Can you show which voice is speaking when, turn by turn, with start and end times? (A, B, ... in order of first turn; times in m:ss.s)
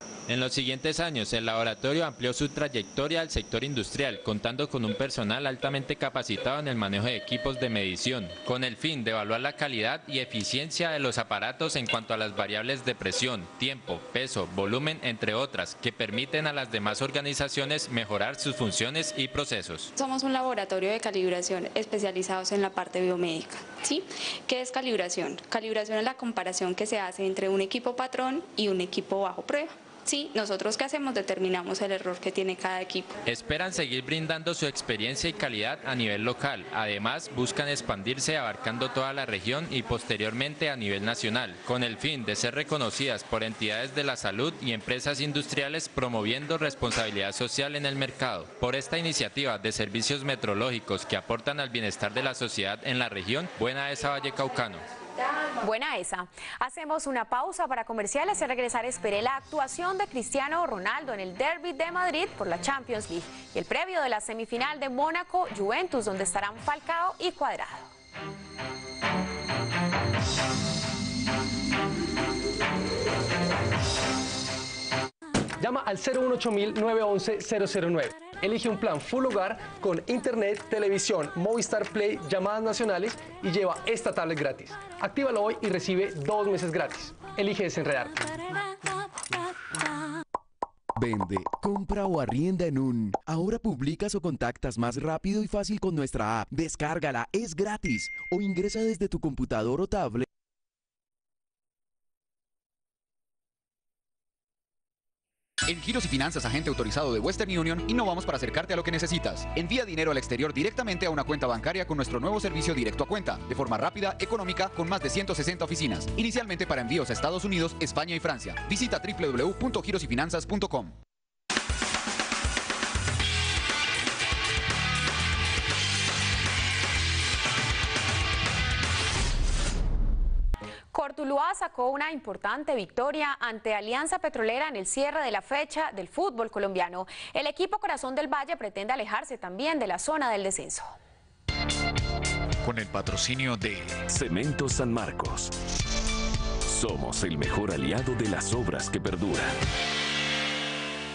0:00.3-0:19.9 A
0:20.0-0:33.1 B
0:33.3-0:54.8 A
0:55.6-1:07.9 C
1:15.6-1:28.4 D
1:31.0-1:40.2 E
1:45.7-2:00.9 F
2:10.9-2:21.0 C
2:22.6-2:23.9 F
2:24.1-2:25.5 G
2:26.7-2:29.5 G